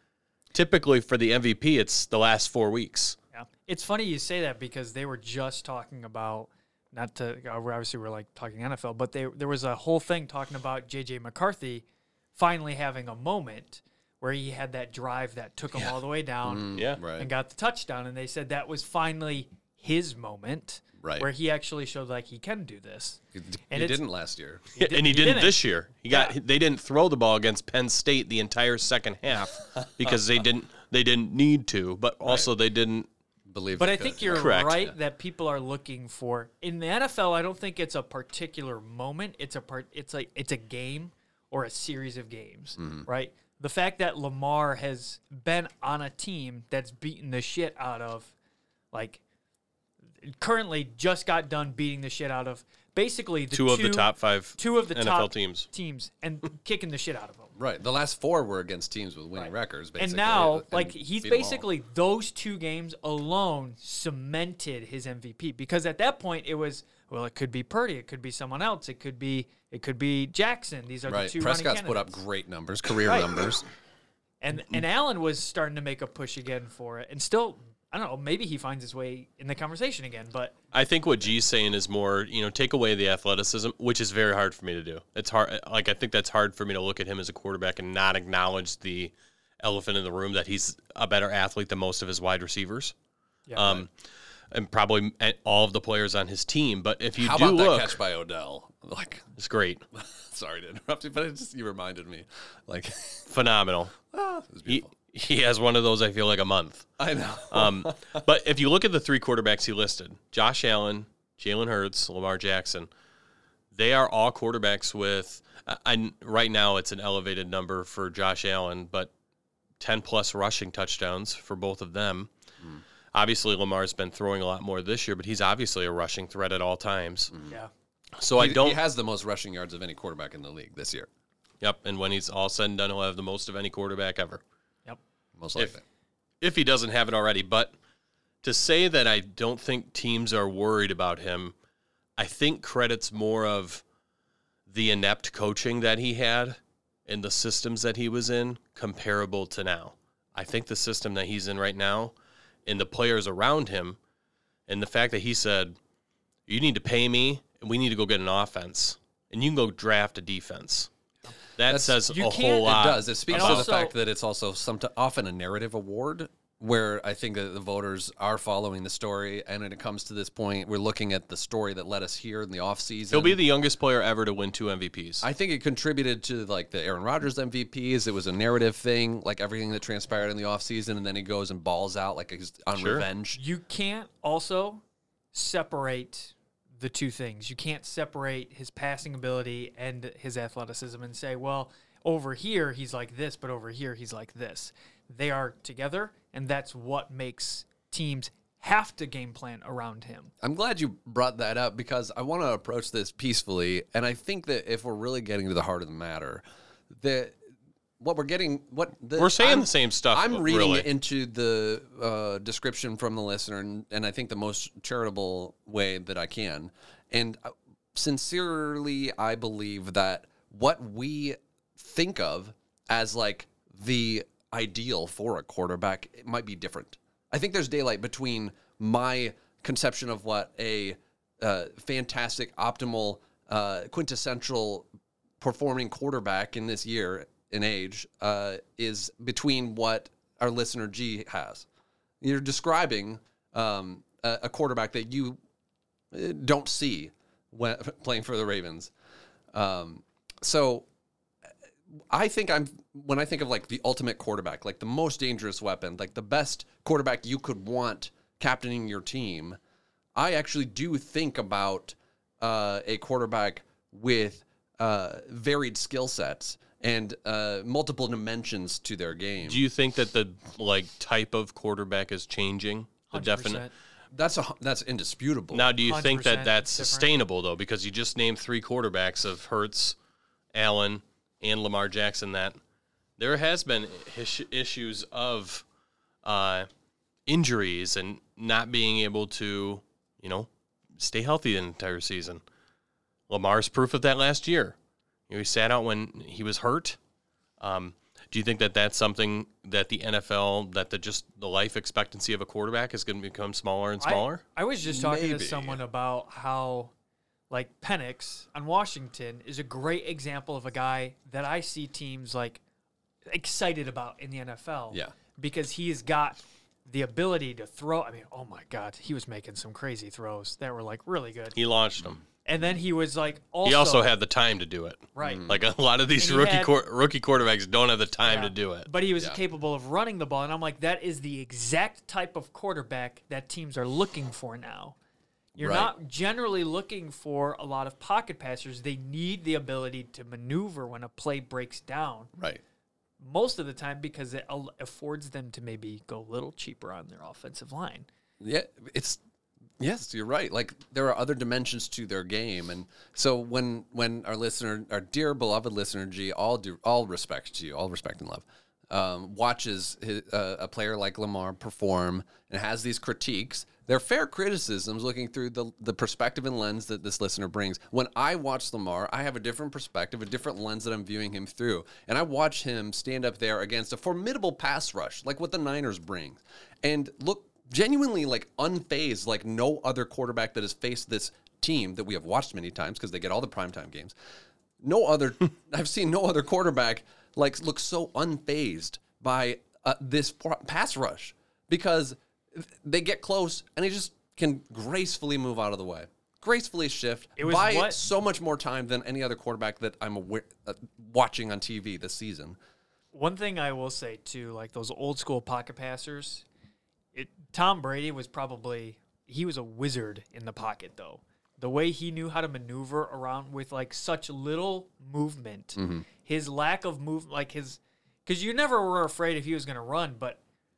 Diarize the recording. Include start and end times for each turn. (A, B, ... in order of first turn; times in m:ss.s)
0:00.5-0:03.2 A
0:03.3-0:24.0 B
0:16.4-0:17.3 C
0:16.7-0:17.0 A
0:21.0-0:21.3 C
0:23.3-0:24.6 C
0:24.8-0:26.4 B
0:24.8-0:33.1 A
0:33.5-0:35.0 C
0:33.8-0:48.3 B
0:34.3-0:34.8 A
0:42.8-0:43.1 C
0:48.9-0:49.2 B
0:50.2-0:57.5 B
0:53.5-0:55.7 A
0:57.6-1:01.6 C
0:59.4-1:12.2 B
1:11.1-1:13.7 C
1:14.4-1:20.5 B
1:20.7-1:32.9 A
1:33.5-1:33.8 B
1:33.6-1:33.9 A
1:34.5-1:38.0 A
1:37.2-1:39.3 C
1:39.4-1:39.8 A
1:39.9-1:43.3 C
1:43.3-1:44.0 A
1:44.1-1:44.9 C
1:44.7-1:46.9 A
1:47.0-1:48.2 C
1:47.5-1:52.9 A
1:53.7-1:59.1 A
1:59.8-2:02.3 A
2:03.1-2:07.3 A
2:08.2-2:08.8 A
2:08.4-2:11.1 C
2:11.6-2:14.4 A
2:15.4-2:15.8 C
2:16.4-2:17.7 A
2:18.4-2:21.5 A
2:22.2-2:23.8 A
2:24.7-2:32.1 A
2:32.7-2:34.0 A
2:34.7-2:35.8 A
2:36.5-2:40.9 A
2:41.6-2:43.7 A
2:41.7-2:42.1 C
2:42.1-2:43.9 B
2:42.6-2:53.4 C
2:53.1-2:55.2 A
2:55.2-3:03.4 C
3:02.8-3:03.0 A
3:03.4-3:20.3 B
3:20.4-3:27.4 C
3:28.0-3:54.9 C
3:29.2-3:30.9 A
3:55.4-4:01.7 C
4:02.2-4:05.4 C
4:06.1-4:08.9 C
4:09.5-4:10.9 C
4:12.1-4:19.6 C
4:20.2-4:29.6 C
4:29.4-4:33.6 A
4:33.1-4:33.7 B
4:34.1-4:35.7 C
4:35.5-4:40.0 A
4:35.8-4:37.1 B
4:40.5-4:42.6 A
4:43.2-4:45.6 A
4:46.2-4:46.7 A
4:47.3-4:52.4 A
4:53.3-4:54.8 A
4:55.3-4:57.0 A
4:57.6-5:04.4 A
5:04.0-5:06.9 B
5:04.8-5:05.8 C
5:07.5-5:12.6 B
5:13.3-5:21.6 B
5:21.6-5:22.2 A
5:22.4-5:24.1 B
5:23.6-5:28.9 A
5:25.2-5:25.5 B
5:25.2-5:25.6 C
5:26.2-5:26.7 B
5:28.2-5:35.0 B
5:35.6-5:42.3 B
5:35.6-5:35.9 C
5:42.4-5:42.6 C
5:43.2-5:48.1 B
5:48.4-5:49.2 C
5:49.8-6:24.1 C
6:24.8-6:42.6 C
6:37.4-6:38.0 B
6:43.1-6:46.4 B
6:47.1-7:00.4 B
6:55.8-6:56.0 C